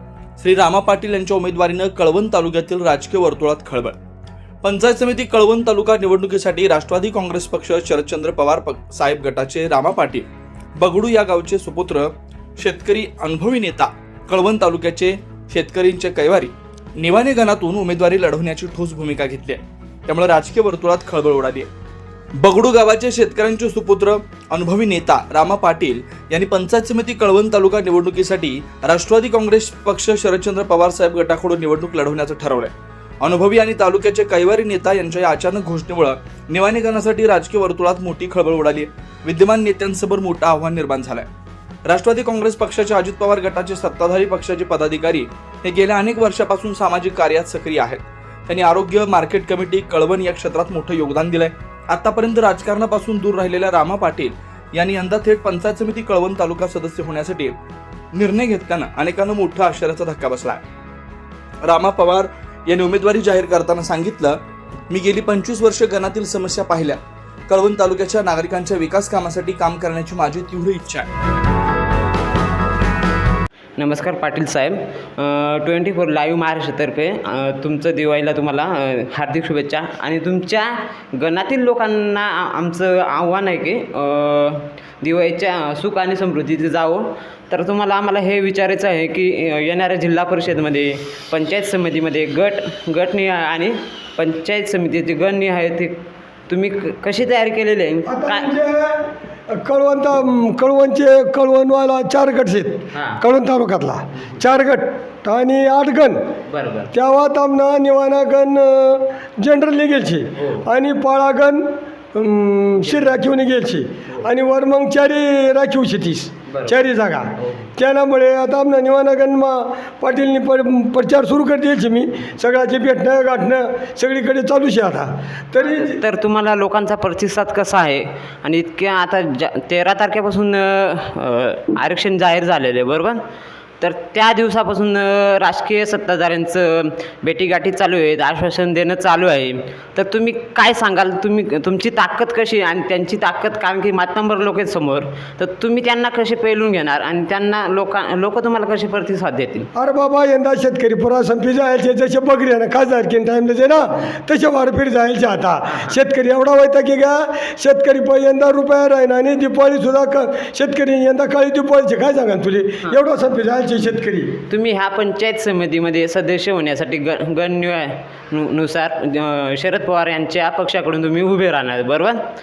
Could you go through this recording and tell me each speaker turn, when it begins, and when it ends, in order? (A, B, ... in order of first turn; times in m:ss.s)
0:00.4-0:04.0 A
0:04.6-0:10.2 A
0:10.8-0:21.7 A
0:22.4-0:41.3 A
0:41.9-0:57.6 A
0:58.1-1:00.6 A
1:01.6-1:04.4 A
1:04.9-1:11.1 A
1:13.8-1:38.5 B
1:38.1-1:46.2 C
1:42.9-1:43.2 B
1:46.5-1:46.9 B
1:46.9-2:06.0 C
1:50.4-1:50.6 B
1:56.5-1:56.8 B
1:57.4-1:57.7 B
2:05.6-2:13.2 B
2:13.8-2:29.7 B
2:29.8-2:44.4 C
2:35.7-2:36.0 B
2:44.5-2:52.2 B